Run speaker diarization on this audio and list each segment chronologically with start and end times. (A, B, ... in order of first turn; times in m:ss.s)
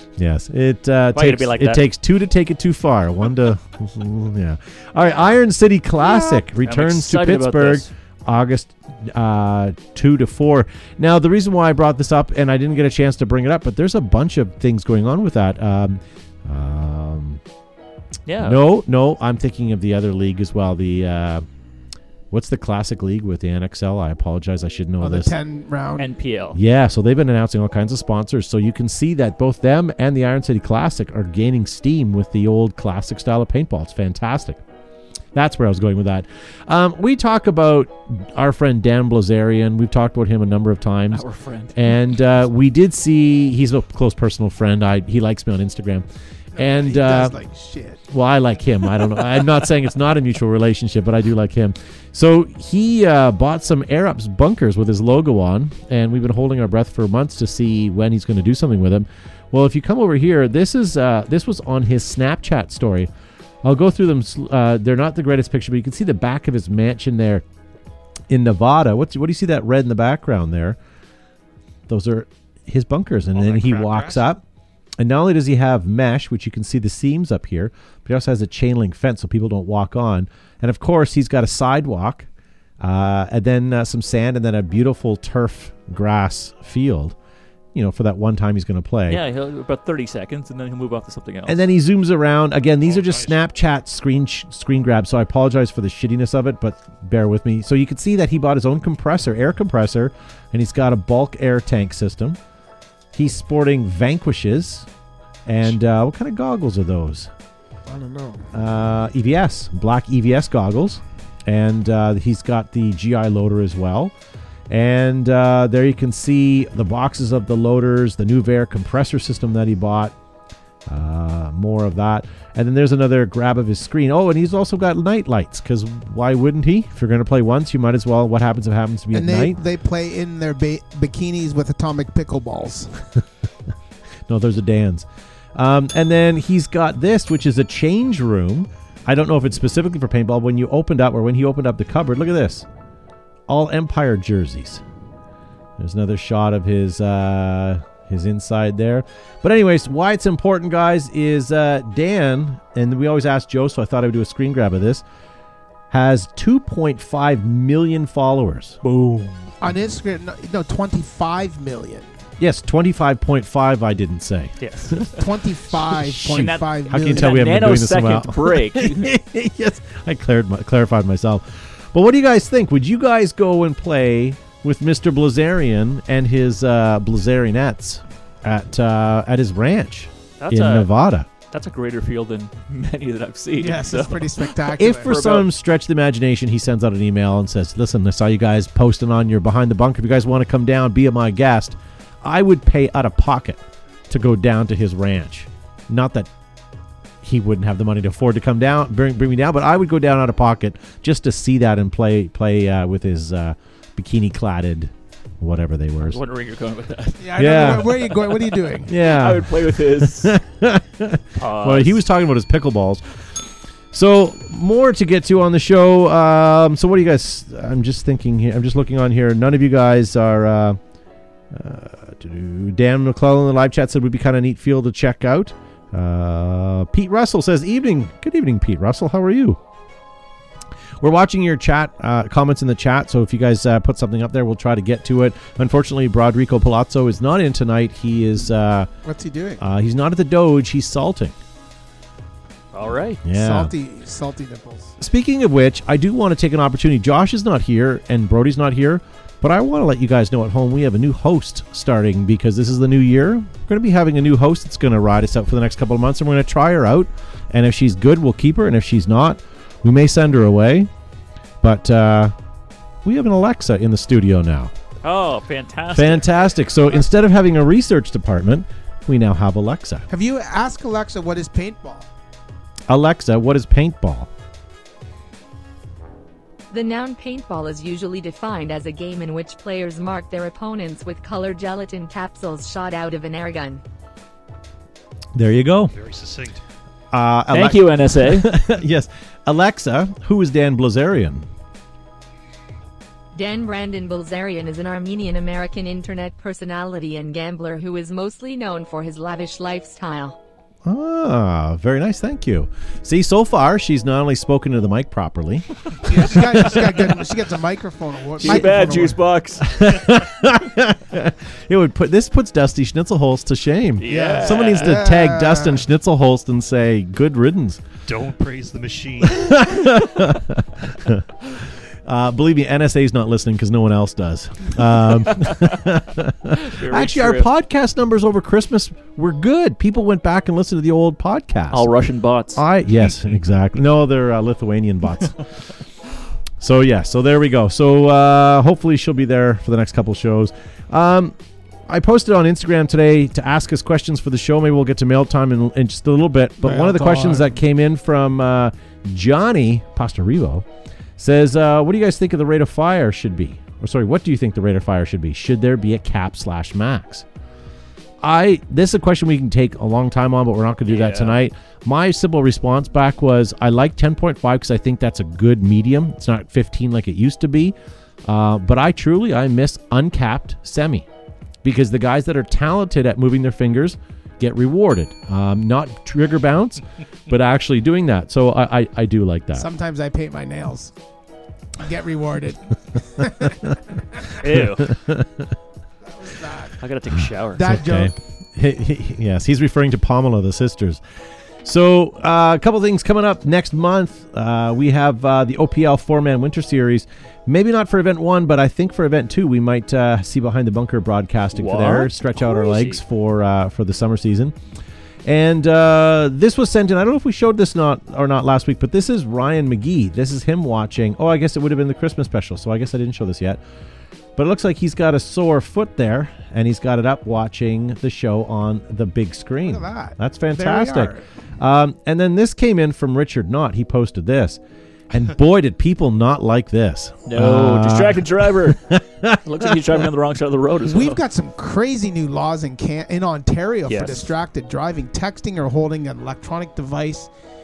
0:00.2-0:17.4 A
0:01.1-0:01.8 B
0:06.0-0:07.9 B
0:18.2-0:18.6 B
0:18.4-0:21.4 A
0:22.3-0:25.3 A
0:25.0-0:26.1 C
0:26.0-0:26.6 B
0:26.5-0:34.6 A
0:35.3-0:47.4 A
0:41.1-0:41.8 B
0:46.6-0:48.0 C
0:48.1-1:03.1 A
1:03.6-1:07.4 A
1:08.3-1:10.8 A
1:11.9-1:14.4 A
1:13.3-1:14.3 D
1:15.0-1:22.3 A
1:22.8-1:27.2 A
1:27.7-1:29.2 A
1:29.1-1:31.6 B
1:31.4-1:42.4 A
1:33.0-1:33.3 D
1:43.1-1:44.9 A
1:45.4-1:47.3 A
1:47.9-1:48.5 C
1:48.5-1:54.1 A
1:54.7-2:00.1 A
2:00.8-2:09.6 A
2:09.1-2:13.0 C
2:14.3-2:22.6 A
2:23.5-2:24.8 A
2:25.8-2:35.0 A
2:35.9-2:39.4 A
2:39.6-2:42.1 C
2:42.4-2:45.2 A
2:44.6-2:45.2 B
2:45.1-2:47.4 C
2:45.7-3:01.3 A
2:46.2-2:49.1 B
3:00.4-3:04.3 B
3:03.6-3:05.1 C
3:04.7-3:16.3 A
3:04.9-3:05.5 B
3:17.2-3:26.2 A
3:26.0-3:30.3 B
3:27.2-3:28.9 C
3:27.4-3:28.0 A
3:28.8-3:40.8 A
3:31.4-3:32.0 B
3:41.5-3:49.6 A
3:51.0-3:58.9 A
3:59.0-3:59.6 C
3:59.6-4:01.3 A
4:02.7-4:03.2 B
4:03.2-4:03.7 A
4:03.3-4:04.9 C
4:05.0-4:20.9 A
4:21.6-4:22.3 A
4:23.0-4:24.7 A
4:25.0-4:26.6 B
4:25.9-4:30.1 A
4:30.1-4:32.1 C
4:32.9-4:34.3 A
4:36.7-4:43.8 E
4:45.3-4:45.9 A
4:45.9-4:46.6 D
4:47.1-4:51.5 A
4:47.5-4:48.5 B
4:53.3-5:00.4 E
5:00.8-5:07.2 A
5:06.0-5:09.2 C
5:08.4-5:09.6 B
5:08.4-5:09.0 A
5:09.6-5:17.8 A
5:14.0-5:15.0 B
5:14.1-5:15.8 C
5:18.1-5:19.9 D
5:19.2-5:31.9 A
5:25.3-5:25.8 B
5:26.5-5:27.5 B
5:31.7-5:32.6 B
5:32.5-5:35.4 A
5:36.6-5:50.6 A
5:46.6-5:47.5 C
5:51.2-5:57.2 A
5:58.2-6:11.0 A
6:00.9-6:01.4 B
6:11.6-6:19.7 A
6:19.5-6:20.9 C
6:21.8-6:23.7 C
6:23.4-6:23.7 A
6:24.4-6:24.9 B
6:24.4-6:25.5 A
6:26.0-6:26.8 C
6:26.8-6:27.7 B
6:27.1-6:31.0 A
6:27.5-6:28.1 C
6:31.6-6:44.6 A
6:41.5-6:43.0 B
6:45.2-6:53.6 A
6:54.4-7:10.0 A
6:59.6-7:01.2 C
7:07.2-7:11.2 B
7:10.8-7:17.3 C
7:13.9-7:14.3 B